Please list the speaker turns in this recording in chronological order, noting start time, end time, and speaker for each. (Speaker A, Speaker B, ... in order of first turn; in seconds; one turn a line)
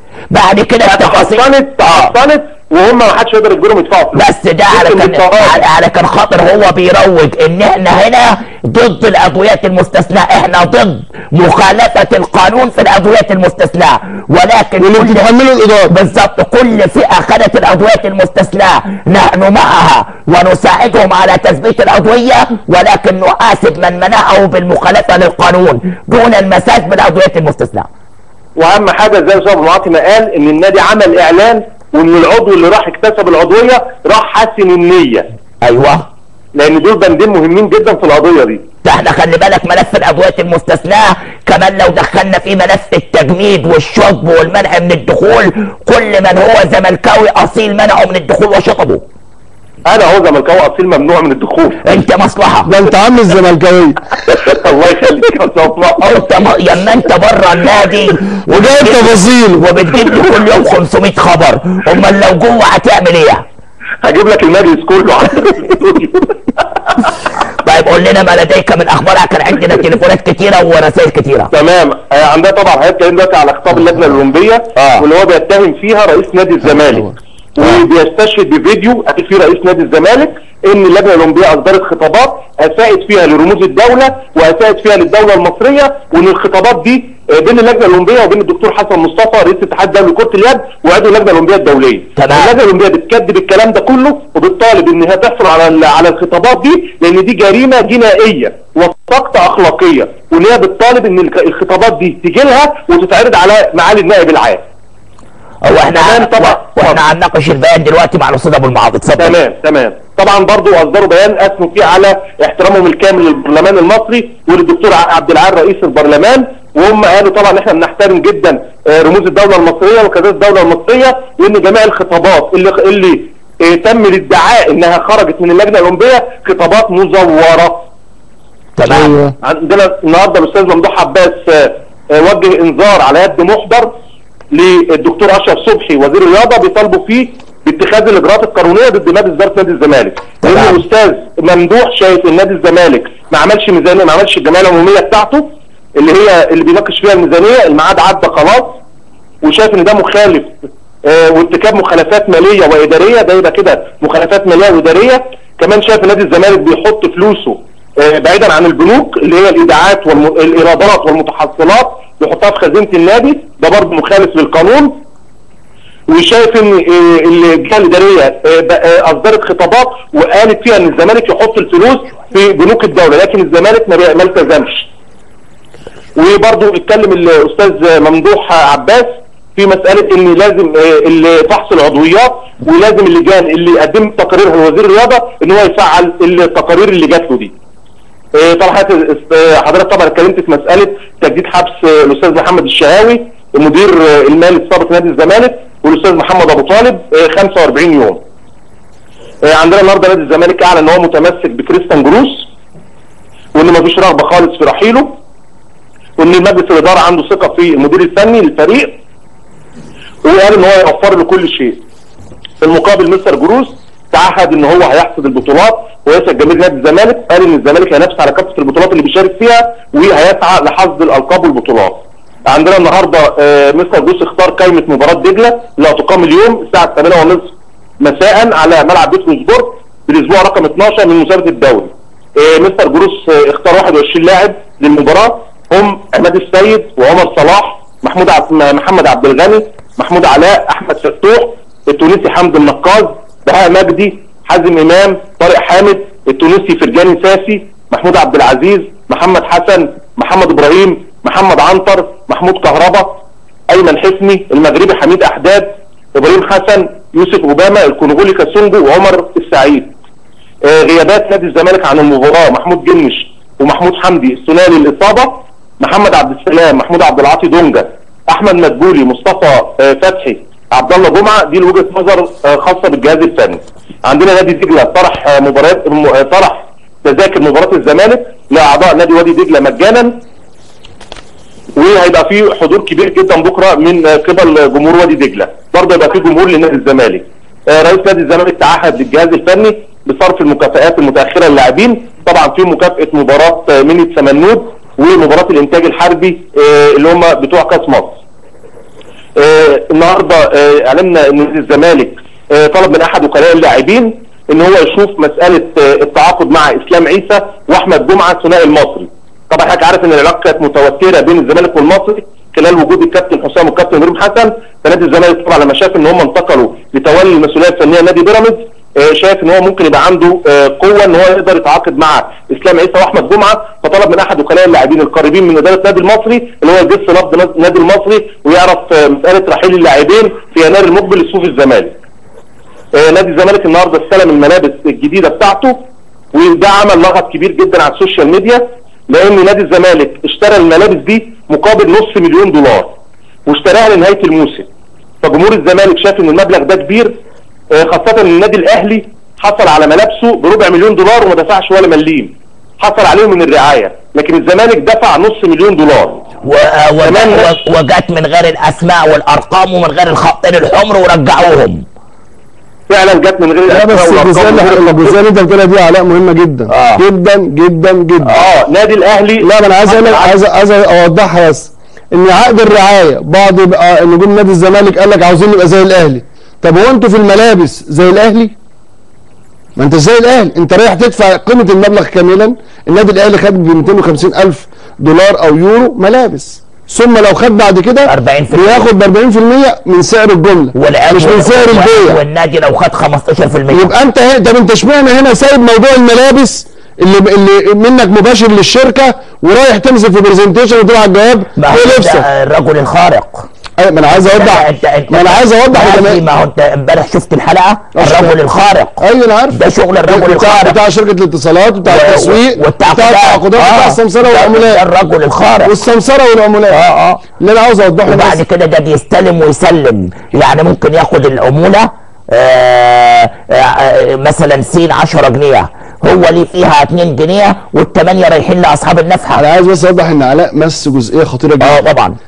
Speaker A: 0.3-2.1
Speaker B: 0.9-5.7
Speaker A: 4.2-15.3
Speaker C: 14.8-15.9
Speaker A: 15.9-27.9
Speaker B: 28.6-35.3
Speaker A: 35.6-36.1
Speaker B: 36.5-38.6
Speaker A: 38.8-49.0
Speaker B: 49.9-51.8
Speaker A: 51.8-52.7
Speaker C: 52.6-54.0
Speaker B: 54.3-56.2
Speaker A: 56.0-63.4
Speaker C: 58.5-59.7
Speaker B: 64.0-66.3
Speaker A: 67.6-71.5
Speaker B: 71.5-104.6
Speaker A: 74.8-75.1
Speaker A: 92.2-92.5
Speaker A: 105.6-109.4
Speaker B: 106.0-107.0
Speaker B: 109.2-127.8
Speaker A: 128.8-129.2
Speaker C: 128.9-129.3
Speaker B: 129.4-133.9
Speaker B: 134.5-148.8
Speaker A: 140.4-140.8
Speaker B: 149.4-164.9
Speaker B: 166.1-174.9
Speaker B: 176.2-187.5
Speaker B: 188.3-198.2
Speaker B: 199.4-202.5
Speaker B: 203.5-205.1
Speaker B: 206.2-208.9
Speaker B: 210.2-211.8
Speaker B: 212.6-253.2
Speaker B: 253.7-259.9
Speaker B: 260.6-280.1
Speaker B: 281.8-298.1
Speaker B: 299.4-332.0
Speaker B: 332.9-335.8
Speaker B: 336.3-342.9
Speaker B: 343.5-344.7
Speaker B: 345.2-347.1
Speaker B: 347.7-356.3
Speaker A: 356.4-361.9
Speaker B: 357.0-357.5
Speaker B: 362.9-365.2
Speaker C: 363.7-368.4
Speaker A: 366.7-367.0
Speaker B: 368.3-370.4
Speaker C: 369.4-378.5
Speaker C: 379.8-392.2
Speaker A: 388.1-388.9
Speaker A: 390.7-393.9
Speaker C: 393.7-402.3
Speaker A: 401.6-403.5
Speaker C: 403.8-406.2
Speaker A: 404.1-409.0
Speaker C: 407.9-408.4
Speaker C: 409.0-414.8
Speaker A: 409.5-410.8
Speaker A: 411.9-415.7
Speaker C: 415.6-416.8
Speaker A: 416.7-417.2
Speaker C: 417.4-418.4
Speaker A: 418.1-429.4
Speaker C: 429.3-431.8
Speaker A: 431.6-432.2